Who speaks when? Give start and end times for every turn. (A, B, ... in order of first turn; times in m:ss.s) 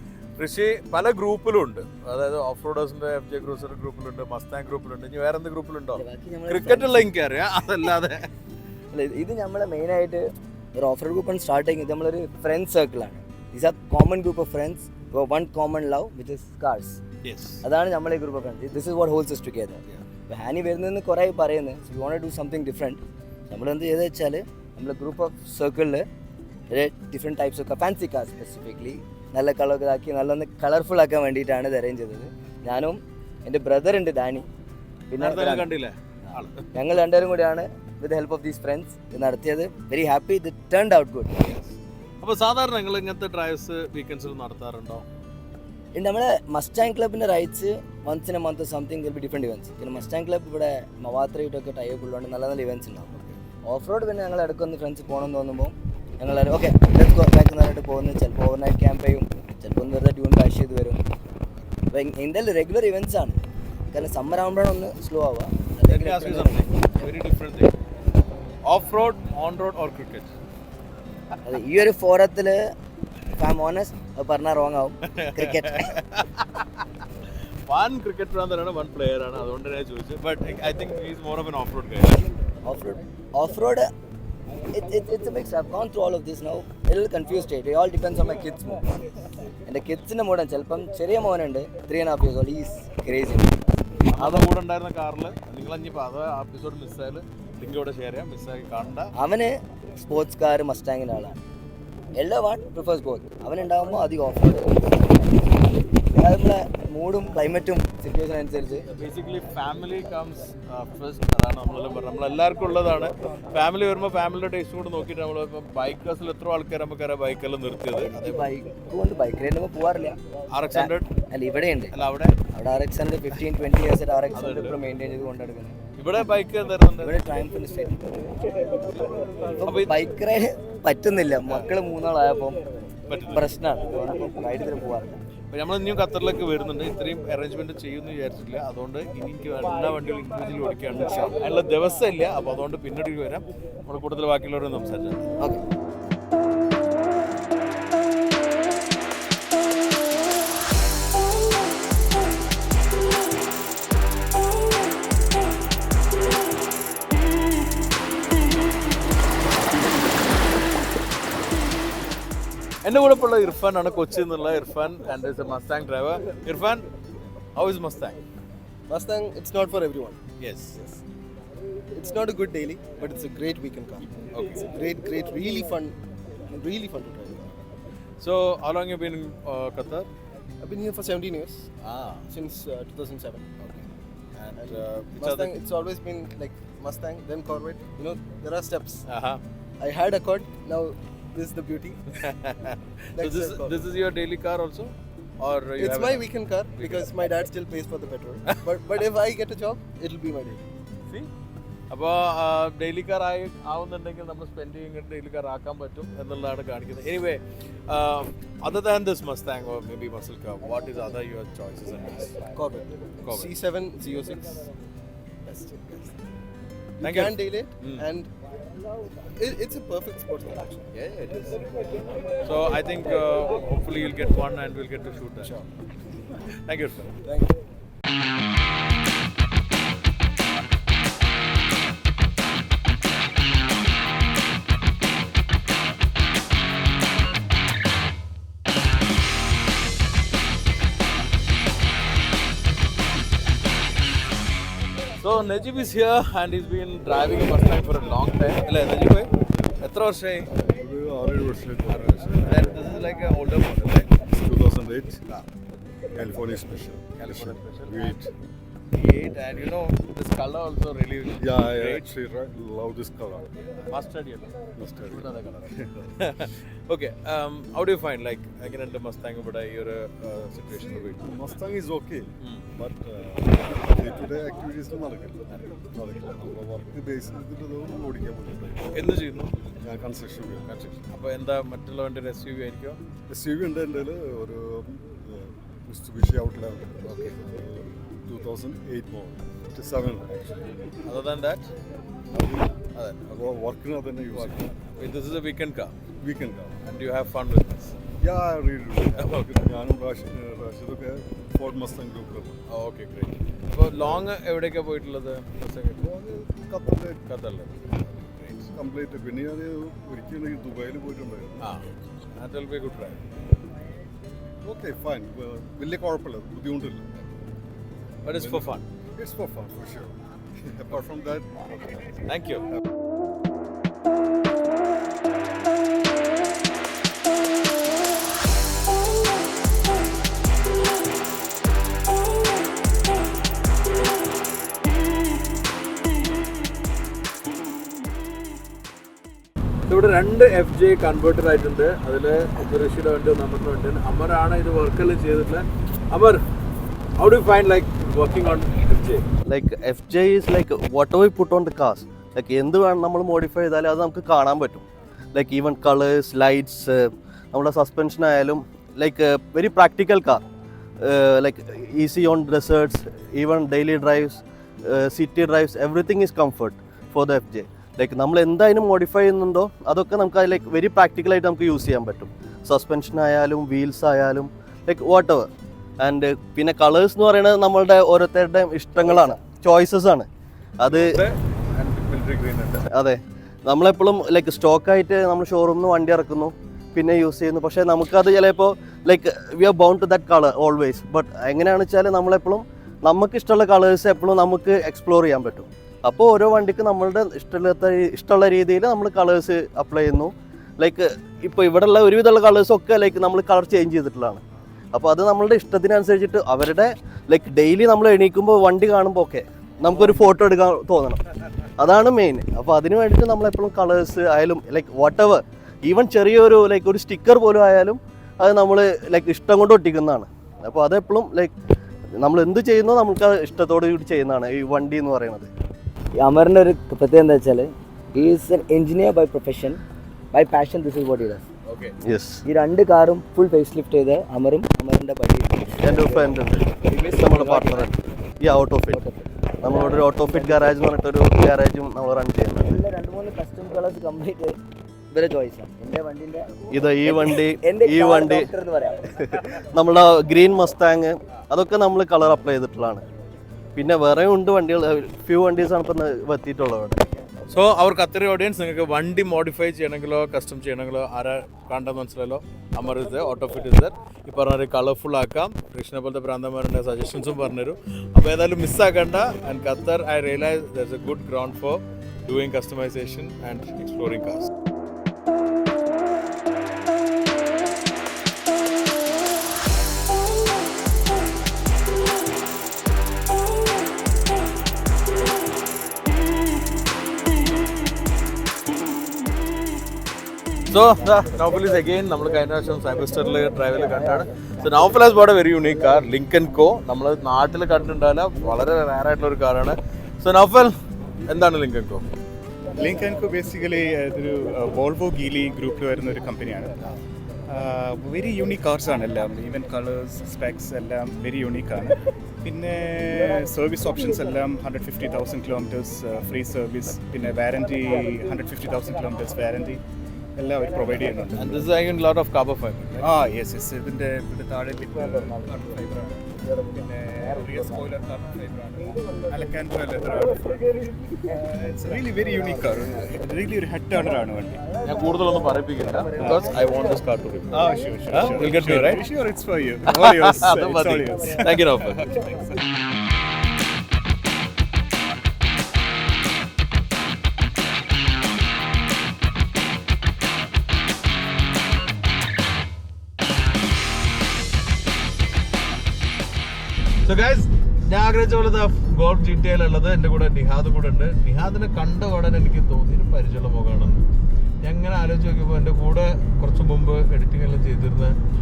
0:00.4-0:08.3 A
0:05.9-0:07.1 B
0:08.9-0:10.2 B
0:10.8-0:17.0 B
0:17.2-0:17.6 A
0:17.6-0:26.1 B
0:26.7-0:34.5 B
0:35.1-0:35.7 B
0:35.2-0:36.5 A
0:36.7-0:41.4 B
0:41.4-0:45.0 A
0:45.9-0:53.1 B
0:53.7-1:01.0 B
1:01.9-1:03.4 B
1:03.9-1:07.1 B
1:05.9-1:07.7 A
1:08.6-1:10.4 A
1:11.4-1:12.6 B
1:13.4-1:15.9 B
1:15.1-1:16.8 A
1:17.7-1:22.2 A
1:22.6-1:23.9 B
1:24.7-1:28.8 B
1:29.6-1:33.6 B
1:34.1-1:39.1 A
1:34.2-1:34.5 B
1:39.2-1:41.4 B
1:42.2-1:45.1 B
1:46.2-1:48.8 B
1:48.9-1:58.5 A
1:58.0-2:00.2 B
2:00.5-2:01.1 A
2:00.7-2:01.9 B
2:01.9-2:02.3 A
2:02.5-2:05.8 B
2:04.3-2:04.8 A
2:06.0-2:07.2 A
2:07.0-2:08.3 B
2:09.6-2:12.6 B
2:09.6-2:10.0 A
2:11.4-2:11.7 A
2:13.1-2:13.5 A
2:13.3-2:15.2 B
2:15.5-2:25.2 A
2:20.9-2:21.3 B
2:42.8-2:46.8 A
2:47.5-2:48.2 A
2:48.9-2:50.2 C
2:50.4-2:50.9 A
2:51.9-2:57.6 C
2:54.3-2:54.7 A
2:58.2-3:00.1 A
3:00.6-3:01.7 C
3:01.8-3:02.2 A
3:02.3-3:03.6 C
3:04.4-3:05.5 A
3:04.5-3:09.1 C
3:09.0-3:09.4 A
3:09.8-3:12.0 C
3:12.2-3:17.1 A
3:13.2-3:13.8 C
3:15.8-3:20.6 C
3:21.9-3:32.4 A
3:32.5-3:34.7 C
3:33.2-3:33.5 A
3:35.4-3:36.2 C
3:37.0-3:38.3 C
3:37.0-3:38.0 A
3:39.4-3:40.9 C
3:40.9-3:41.6 A
3:42.4-3:45.5 A
3:45.4-3:45.7 C
3:46.7-3:47.1 A
3:47.2-3:47.5 C
4:05.2-4:09.3 A
4:09.8-4:10.5 A
4:10.6-4:12.8 D
4:11.9-4:14.0 A
4:14.3-4:15.2 D
4:16.1-4:18.3 D
4:17.2-4:18.2 A
4:18.9-4:22.0 A
4:21.4-4:23.5 D
4:23.9-4:31.3 A
4:24.8-4:26.1 D
4:30.7-4:39.1 D
4:38.9-4:39.6 A
4:39.8-4:41.0 D
4:40.7-4:43.0 A
4:43.3-4:50.8 D
4:47.0-4:47.3 A
4:51.0-4:51.7 A
4:52.3-4:52.8 D
4:52.9-4:53.5 A
4:53.3-4:54.8 D
4:54.3-4:55.9 A
4:56.2-4:56.8 D
4:56.8-4:58.0 A
4:58.2-5:02.6 D
4:59.2-4:59.5 A
5:02.7-5:06.1 A
5:06.0-5:07.2 D
5:07.2-5:08.7 A
5:08.7-5:11.8 D
5:11.6-5:13.2 A
5:14.6-5:17.1 D
5:18.2-5:18.8 A
5:18.3-5:22.1 D
5:22.2-5:22.6 A
5:39.9-5:46.4 A
5:47.2-5:49.2 A
5:49.5-6:00.4 E
6:01.0-6:15.5 E
6:16.0-6:20.3 E
6:20.8-6:21.1 E
6:20.8-6:22.9 A
6:22.9-6:51.2 E
6:51.8-7:01.5 E
7:02.2-7:05.5 E
7:06.2-7:09.8 B
7:10.3-7:11.5 B
7:11.6-7:11.9 A
7:12.0-7:12.4 E
7:12.4-7:17.9 B
7:15.8-7:19.0 E
7:18.9-7:20.8 B
7:19.6-7:22.8 E
7:22.6-7:24.6 B
7:25.1-7:29.1 B
7:26.7-7:28.5 E
7:29.2-7:33.0 E
7:33.8-7:37.2 E
7:37.5-7:54.5 A
8:10.7-8:20.7 A
8:21.3-8:22.0 A
8:22.7-8:26.7 F
8:27.5-8:39.8 F
8:40.4-8:41.7 F
8:41.4-8:43.1 A
8:43.0-8:50.6 F
8:51.3-8:54.6 F
8:54.8-8:59.0 A
8:57.5-9:02.5 F
8:59.9-9:02.1 A
9:17.0-9:24.0 A
9:24.6-9:28.2 A